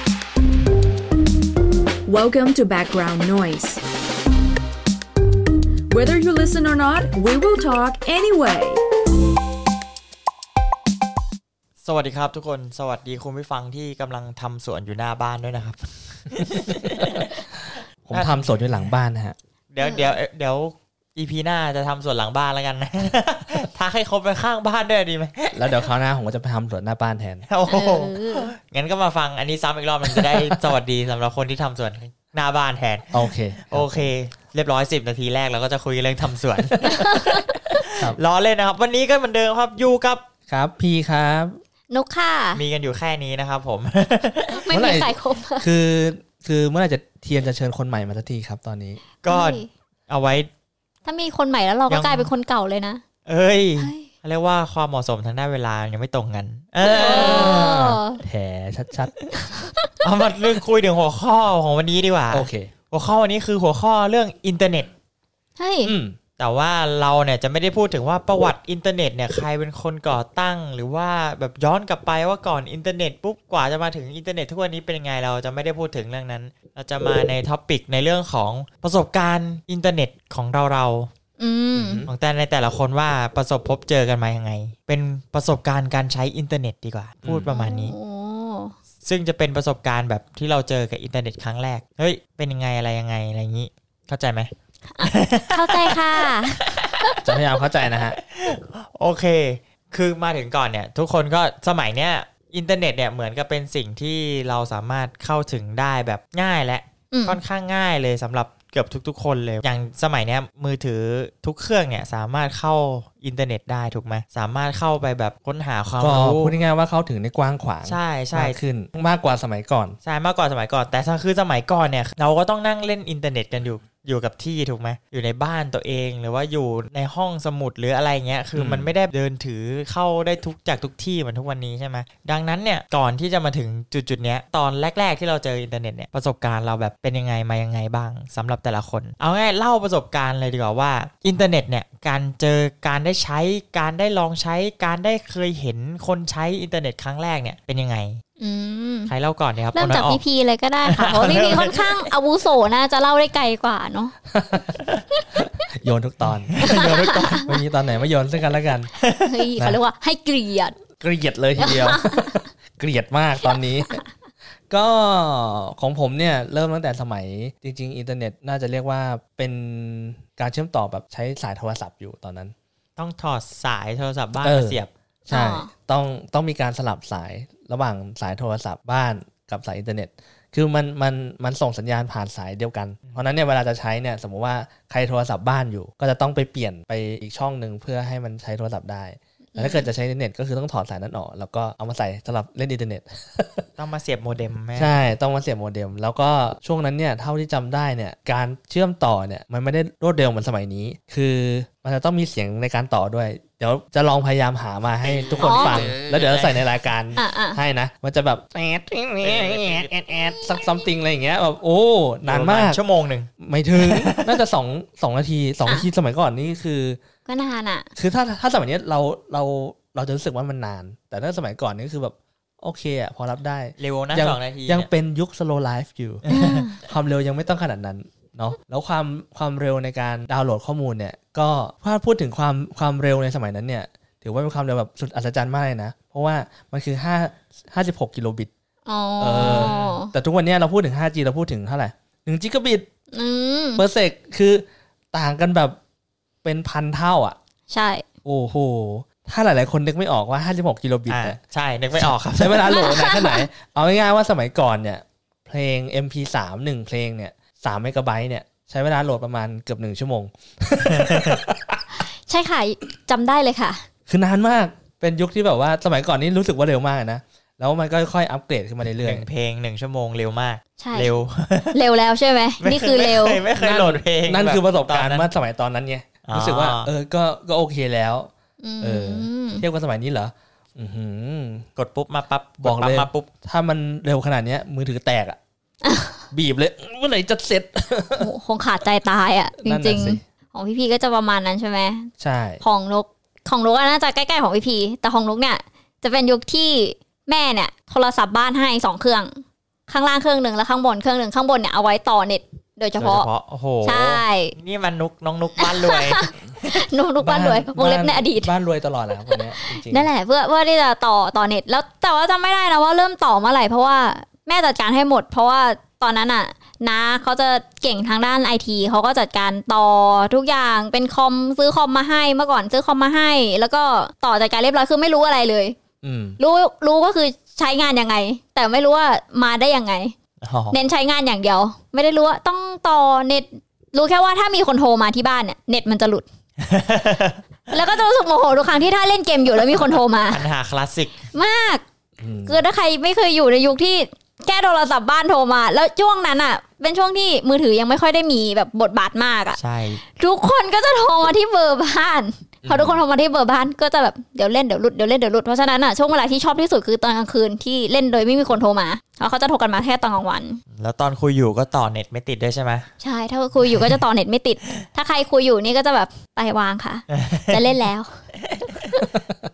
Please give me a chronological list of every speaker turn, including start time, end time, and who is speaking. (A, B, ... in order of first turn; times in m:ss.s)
0:02.0-0:03.8 A
0:05.9-0:08.8 A
0:11.8-0:17.3 B
0:18.0-0:19.3 C
0:18.1-0:18.7 B
0:19.7-0:25.8 B
0:19.8-0:20.1 D
0:25.5-0:27.4 C
0:27.5-0:40.2 B
0:27.7-0:28.5 D
0:30.1-0:30.7 C
0:33.1-0:34.0 C
0:36.6-0:36.9 C
0:36.8-0:37.6 D
0:40.5-0:41.6 C
0:41.9-0:42.6 D
0:42.6-0:44.6 B
0:44.5-0:45.7 D
0:44.7-0:49.0 C
0:49.2-0:50.5 B
0:49.3-0:49.7 D
0:51.0-0:53.0 D
0:51.9-0:52.3 B
0:53.2-0:57.8 B
0:53.8-0:54.1 D
0:56.8-0:59.1 C
0:56.8-0:58.2 D
0:59.4-0:59.9 D
1:00.0-1:04.9 B
1:02.3-1:02.7 C
1:05.6-1:05.9 D
1:05.8-1:06.2 C
1:06.4-1:21.1 B
1:21.4-1:22.0 D
1:21.7-1:22.1 C
1:22.1-1:27.9 B
1:27.2-1:27.5 C
1:27.5-1:28.7 D
1:29.0-1:34.5 B
1:34.9-1:37.2 D
1:35.0-1:37.2 B
1:37.2-1:38.2 C
1:37.9-1:56.6 B
1:47.1-1:47.4 D
1:56.0-2:00.0 C
1:57.8-1:58.6 B
2:00.0-2:28.2 B
2:08.5-2:08.9 C
2:28.4-2:29.1 D
2:29.1-2:30.2 B
2:29.7-2:34.1 D
2:30.8-2:32.1 B
2:34.3-2:34.8 C
2:35.4-2:36.6 C
2:36.5-2:37.5 B
2:36.6-2:37.4 D
2:37.4-2:38.9 C
2:39.0-2:39.4 B
2:39.2-2:40.8 D
2:41.0-2:44.0 C
2:41.6-2:42.3 D
2:44.7-2:52.5 C
2:53.0-2:54.9 B
2:54.4-3:13.7 C
2:55.3-2:55.7 D
3:09.5-3:09.8 D
3:13.8-3:14.9 B
3:14.8-3:32.8 C
3:25.0-3:26.6 B
3:25.4-3:25.9 D
3:27.2-3:27.6 D
3:29.2-3:29.9 B
3:32.2-3:34.4 B
3:33.4-3:37.0 C
3:37.2-3:37.9 D
3:38.0-3:46.2 C
3:43.8-3:44.9 B
3:46.2-3:46.7 B
3:46.3-3:46.8 D
3:46.7-3:58.5 C
3:58.8-4:00.1 D
3:59.2-4:02.9 C
3:59.4-4:00.0 B
4:03.1-4:03.8 D
4:03.8-4:05.8 C
4:06.4-4:07.4 C
4:07.7-4:08.0 D
4:08.2-4:11.4 C
4:11.1-4:12.8 B
4:11.9-4:21.8 C
4:12.7-4:13.4 D
4:20.8-4:21.4 B
4:22.3-4:23.8 D
4:24.1-4:29.2 C
4:29.0-4:31.8 B
4:30.8-4:31.1 D
4:31.7-4:33.4 D
4:32.6-4:35.3 B
4:33.6-4:38.3 C
4:36.3-4:36.9 B
4:38.6-4:39.6 D
4:38.8-4:41.7 C
4:41.8-4:43.3 B
4:42.6-4:45.4 C
4:45.8-4:46.2 D
4:46.3-4:48.3 C
4:48.2-4:52.1 D
4:49.6-4:50.2 C
4:52.2-4:52.6 C
4:52.6-5:03.3 D
5:03.0-5:06.8 B
5:03.8-5:04.5 D
5:05.6-5:08.5 D
5:07.2-5:10.1 C
5:09.3-5:25.8 D
5:26.0-5:26.4 C
5:26.4-5:30.1 D
5:30.4-5:30.8 B
5:30.7-5:36.2 D
5:36.6-5:37.4 B
5:37.7-5:40.4 D
5:40.3-5:41.2 B
5:41.3-5:41.8 D
5:42.2-5:42.6 C
5:42.4-5:49.6 D
5:49.6-5:50.0 B
5:50.1-6:00.6 D
5:52.6-5:53.0 C
6:00.7-6:02.9 B
6:03.0-6:08.2 D
6:03.7-6:04.0 B
6:07.1-6:07.6 B
6:08.4-6:08.8 B
6:08.8-6:09.1 D